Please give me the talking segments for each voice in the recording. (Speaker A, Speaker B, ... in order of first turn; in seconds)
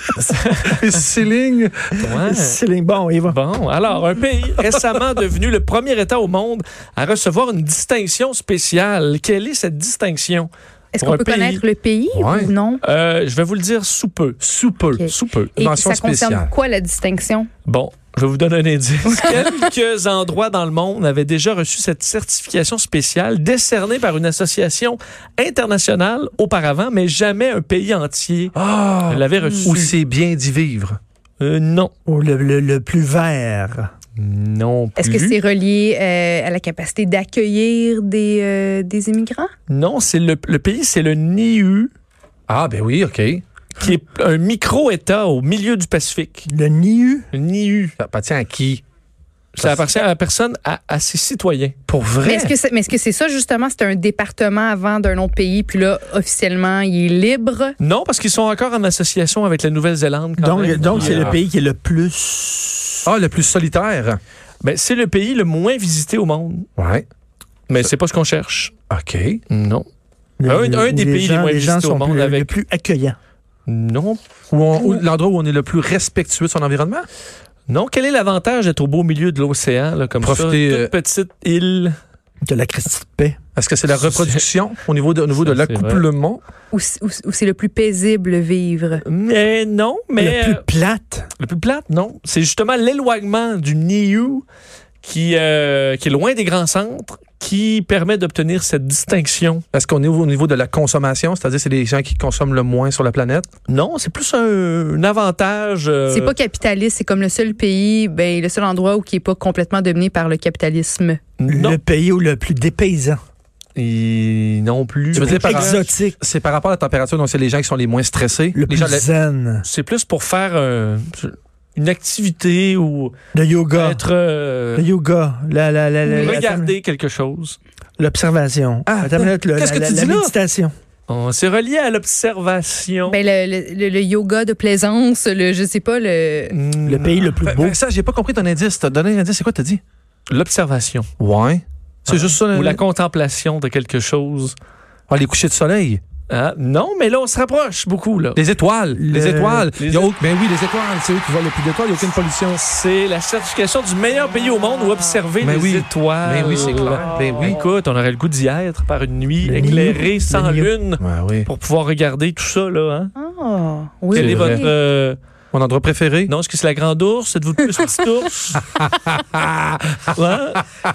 Speaker A: 0.2-0.8, 2.0-2.6, 3.3-11.6, 12.8-14.4, 15.1-15.6, 17.6-28.5, 29.1-29.9, 31.4-31.9, 34.2-35.4, 39.7-41.9, 43.8-46.5, 47.3-47.9, 49.5-51.7, 57.8-61.4, 64.6-66.7, 67.7-68.7, 69.5-69.8, 70.5-72.5, 73.7-74.2, 77.7-81.9, 83.9-84.4, 85.4-86.0, 89.0-90.6, 91.4-94.4, 95.0-99.6, 103.7-106.3, 111.4-111.8, 113.8-115.9, 119.6-123.1, 123.7-124.9, 126.2-127.6, 131.1-133.2, 136.5-137.3, 140.3-141.1, 142.1-144.5, 146.3-148.4, 149.8-150.1, 152.5-163.1, 164.1-165.2, 166.3-168.6, 170.1-170.6
Speaker B: 1.0-1.7, 12.1-12.5, 14.4-15.1, 15.6-16.5, 28.6-31.0, 42.5-43.4, 48.0-48.8, 49.6-49.8, 51.9-52.5, 60.8-61.4, 63.1-64.2, 66.8-67.0, 68.9-69.4, 74.5-77.1, 80.3-80.9, 83.5-86.4, 99.7-103.5, 115.1-119.0, 128.8-130.3, 137.4-139.8, 141.2-142.8, 145.1-146.0, 148.4-152.5, 155.4-157.6, 161.0-161.5, 164.2-164.6, 165.5-166.3, 169.4-169.9
Speaker C: 2.1-3.4, 32.1-33.9, 46.5-47.3, 60.4-63.1, 70.4-73.2, 82.4-83.4, 90.2-91.3, 111.5-113.2, 115.2-116.2, 118.5-119.7, 123.3-124.0, 124.7-126.7, 128.0-130.7, 136.8-137.8, 148.9-149.7, 159.4-160.7
Speaker D: 10.9-12.8, 14.9-17.5, 29.4-29.7, 35.0-39.5, 52.2-57.8, 86.7-89.0, 106.1-111.2, 126.0-126.4, 133.1-136.6, 163.2-164.7